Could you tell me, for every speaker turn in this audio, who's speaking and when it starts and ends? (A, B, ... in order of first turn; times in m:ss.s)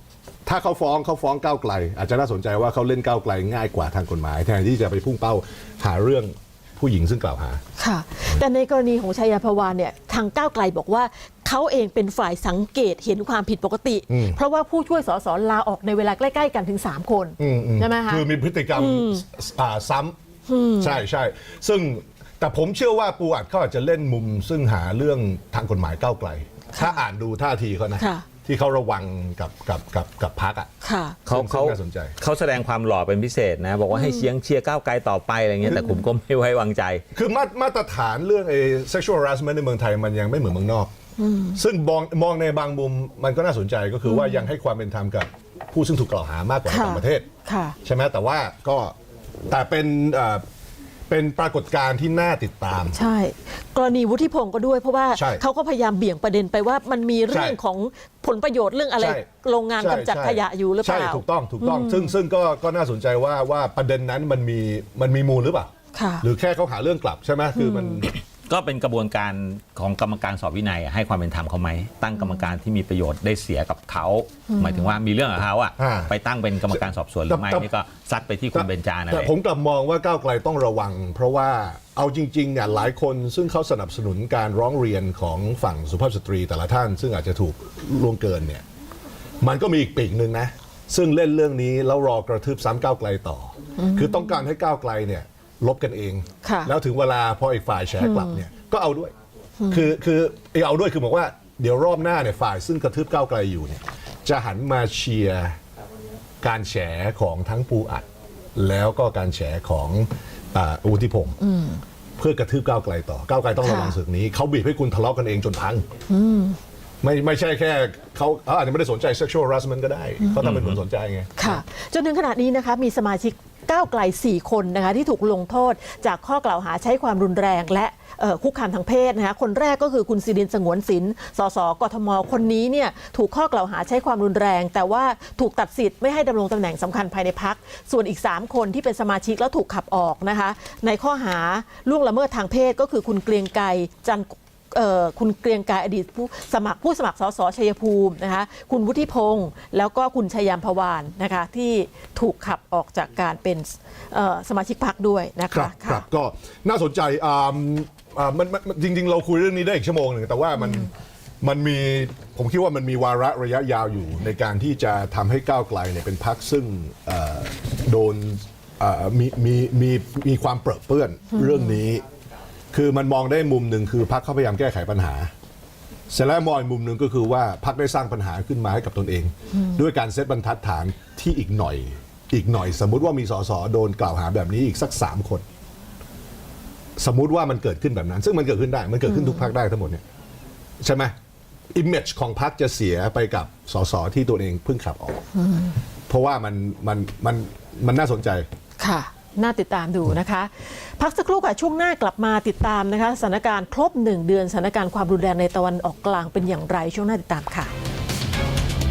0:00.4-0:07.6 A
0:07.8-0:19.3 B
0:14.1-0:14.4 A
0:17.4-0:20.2 A
0:20.5-0:21.0 B
0:20.8-0:30.7 A
0:26.7-0:27.0 B
0:28.0-0:28.2 B
0:30.8-0:31.2 B
0:31.3-0:32.1 A
0:31.3-0:37.0 C
0:33.9-0:34.3 B
0:35.7-0:36.0 B
0:37.1-0:40.9 A
0:41.2-0:41.6 B
0:41.5-0:47.3 A
0:44.1-0:44.5 B
0:46.7-0:47.8 B
0:47.8-0:48.9 A
0:49.5-0:50.4 A
0:51.1-0:53.0 A
0:52.9-1:02.1 B
0:55.1-0:55.4 A
0:57.3-0:57.6 A
0:59.0-0:59.3 A
0:59.8-1:08.1 A
1:05.9-1:06.3 B
1:07.6-1:08.0 B
1:08.5-1:19.3 C
1:12.2-1:12.4 B
1:14.5-1:14.9 B
1:15.8-1:16.1 A
1:16.7-1:17.7 A
1:18.5-1:28.6 A
1:29.4-1:39.1 A
1:33.8-1:34.4 B
1:36.4-1:36.7 B
1:38.0-1:38.4 B
1:39.6-1:39.9 B
1:39.7-1:45.6 A
1:46.4-1:51.4 A
1:51.4-1:51.8 B
1:52.2-1:55.9 A
1:53.6-1:54.0 B
1:56.1-1:56.6 B
1:57.0-2:01.6 A
2:00.4-2:00.8 C
2:01.4-2:36.0 B
2:35.5-2:40.9 A
2:41.4-2:52.0 A
2:51.4-2:51.8 B
2:52.7-2:55.3 A
2:56.1-3:05.4 A
3:07.0-3:10.0 A
3:09.1-3:09.4 B
3:10.8-3:11.1 A
3:11.7-3:15.3 A
3:15.4-3:15.8 B
3:16.1-3:18.5 A
3:18.8-3:27.7 B